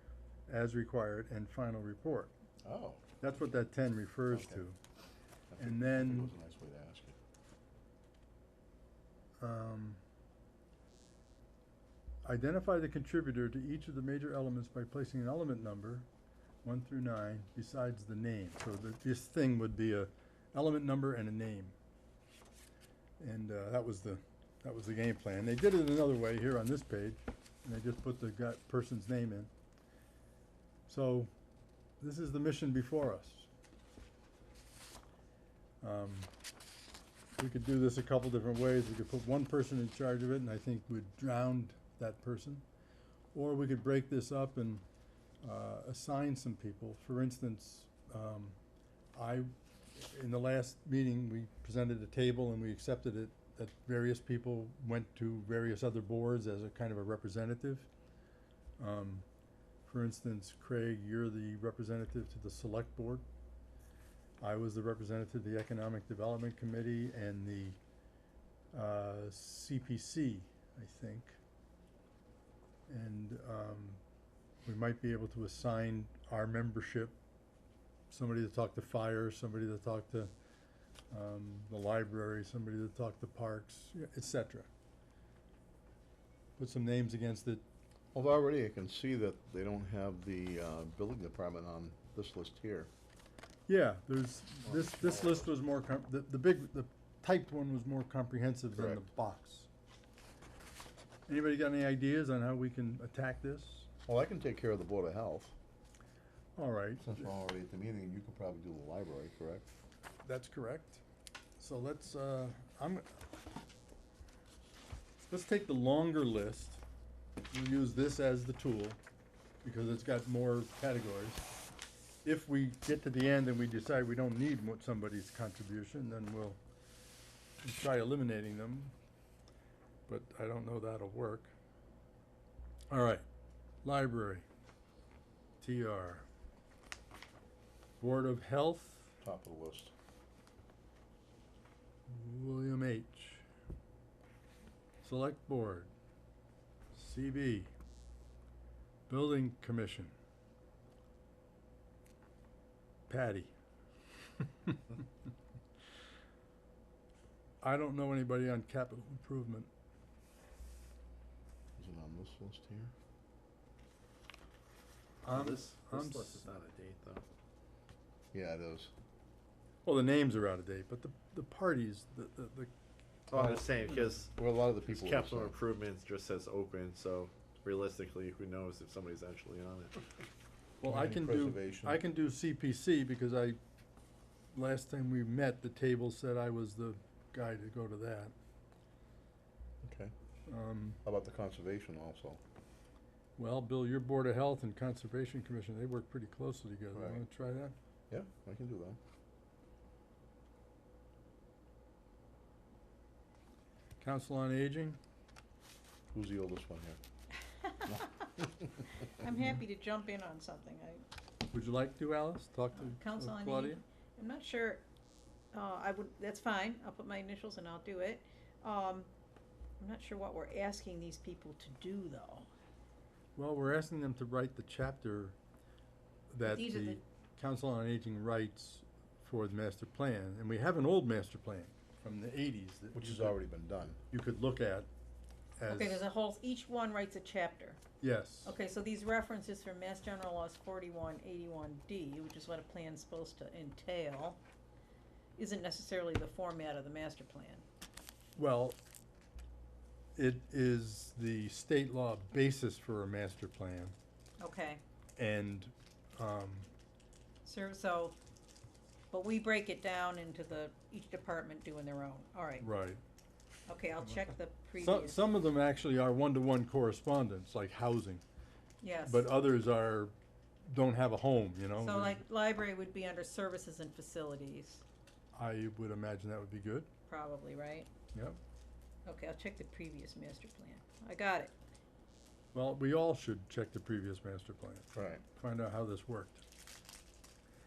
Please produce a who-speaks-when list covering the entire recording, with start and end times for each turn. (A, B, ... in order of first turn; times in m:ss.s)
0:00.5-0:02.3 A
0:02.6-0:03.0 B
0:03.2-0:04.8 A
0:04.3-0:04.6 B
0:05.5-0:07.1 B
0:05.6-0:06.3 A
0:09.4-0:10.0 A
0:12.2-0:16.1 A
0:16.6-0:21.7 A
0:23.2-0:29.5 A
0:30.9-0:31.3 A
0:32.0-0:33.5 A
0:35.8-0:36.3 A
0:37.4-0:42.6 A
0:43.3-0:44.8 A
0:45.4-0:48.6 A
0:49.1-0:57.9 A
0:58.8-0:59.2 A
0:59.8-1:03.2 A
1:04.4-1:07.8 A
1:08.7-1:11.4 A
1:12.9-1:14.0 A
1:14.6-1:17.2 A
1:18.1-1:20.3 A
1:21.1-1:24.7 A
1:26.6-1:27.6 A
1:28.1-1:32.9 B
1:33.7-1:39.7 A
1:34.6-1:35.4 B
1:38.8-1:39.0 B
1:41.3-1:43.9 A
1:44.0-1:45.5 B
1:46.6-1:47.1 A
1:47.0-1:49.7 B
1:50.2-1:51.0 A
1:51.6-1:53.1 A
1:55.2-1:56.8 A
1:57.5-1:59.0 A
1:59.6-2:01.4 A
2:02.2-2:06.6 A
2:07.6-2:08.9 A
2:10.1-2:11.5 A
2:12.9-2:13.2 A
2:13.8-2:14.4 A
2:15.6-2:16.2 A
2:18.0-2:19.1 A
2:19.2-2:19.9 B
2:22.1-2:23.4 A
2:25.0-2:25.9 A
2:26.9-2:27.7 A
2:29.1-2:30.1 A
2:33.1-2:33.5 A
2:37.6-2:39.7 A
2:41.8-2:42.9 B
2:45.2-2:46.5 A
2:45.3-2:47.2 C
2:48.3-2:48.9 B
2:49.8-2:52.7 A
2:53.3-2:54.3 C
2:53.3-2:55.5 B
2:54.9-3:00.0 C
3:00.8-3:03.6 A
3:00.8-3:02.0 B
3:04.5-3:08.3 A
3:09.8-3:10.1 B
3:10.5-3:11.0 A
3:11.0-3:12.4 B
3:13.4-3:17.7 A
3:16.9-3:17.2 B
3:18.1-3:19.0 B
3:24.0-3:25.0 A
3:26.1-3:27.0 B
3:27.6-3:28.3 D
3:27.9-3:28.9 B
3:29.0-3:31.0 D
3:31.5-3:33.8 A
3:32.7-3:34.9 D
3:35.5-3:39.1 D
3:39.8-3:42.5 D
3:43.4-3:45.4 A
3:46.3-3:53.4 A
3:46.4-3:47.0 D
3:52.9-3:54.0 B
3:54.1-3:54.9 A
3:55.6-3:56.0 A
3:55.7-3:57.8 D
3:58.0-3:58.5 A
3:58.4-4:04.4 D
4:05.4-4:07.6 D
4:08.4-4:08.8 A
4:10.2-4:13.9 A
4:14.4-4:14.8 D
4:15.2-4:16.7 A
4:17.4-4:18.2 D
4:19.1-4:22.6 D
4:22.6-4:23.0 A
4:23.7-4:25.2 D
4:24.8-4:28.2 A
4:28.8-4:29.2 D
4:29.1-4:30.1 A
4:30.7-4:32.2 A
4:31.8-4:34.8 D
4:35.3-4:36.9 A
4:37.1-4:37.9 D
4:38.1-4:38.4 A
4:39.0-4:41.5 D
4:42.5-4:46.4 A
4:44.9-4:45.2 B